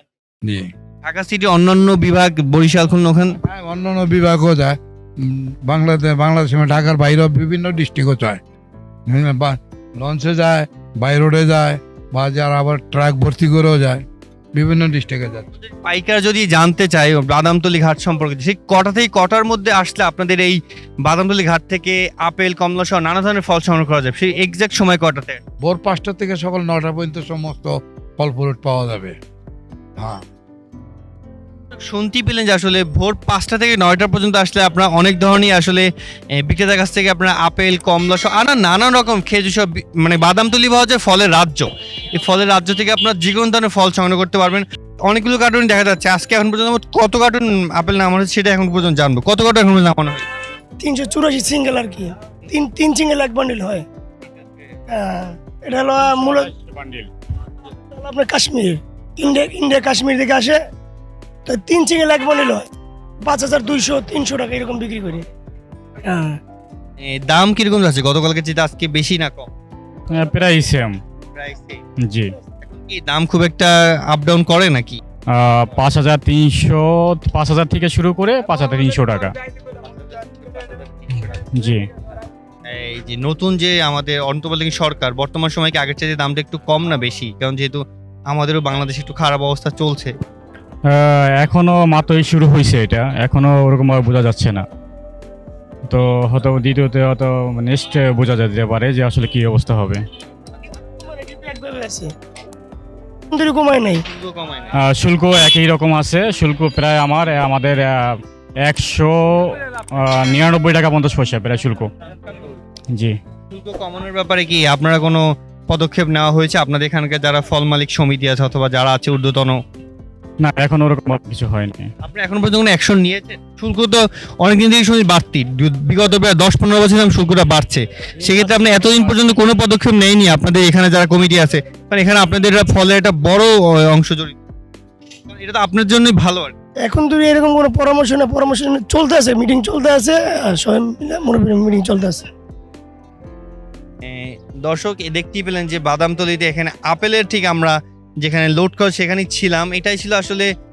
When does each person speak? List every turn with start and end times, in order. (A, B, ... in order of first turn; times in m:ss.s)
0:00.4-0:00.7 A
0:01.0-0:03.4 B
0:03.4-0:08.4 A
0:09.1-0:14.0 A
0:14.5-0:15.5 A
0:15.8-0:25.4 B
0:25.6-0:29.2 A
0:31.8-0:35.9 B
0:36.4-0:50.2 B
0:50.8-0:53.8 C
0:54.9-0:56.5 C
0:56.0-0:57.1 D
0:57.9-1:00.6 C
1:01.4-1:02.7 C
1:03.2-1:05.3 C
1:06.0-1:06.4 C
1:07.0-1:09.5 B
1:10.2-1:11.0 D
1:11.3-1:11.8 B
1:12.1-1:12.3 D
1:12.6-1:15.0 B
1:15.3-1:19.3 D
1:21.2-1:21.8 D
1:22.7-1:30.1 B
1:30.9-1:34.6 D
1:35.9-1:40.0 D
1:41.0-1:42.1 C
1:43.3-1:44.0 C
1:44.1-1:44.8 B
1:44.8-1:51.9 D
1:53.5-1:59.6 B
2:00.4-2:01.9 D
2:02.0-2:14.4 B
2:15.3-2:16.5 B
2:16.8-2:22.3 C
2:24.0-2:30.5 B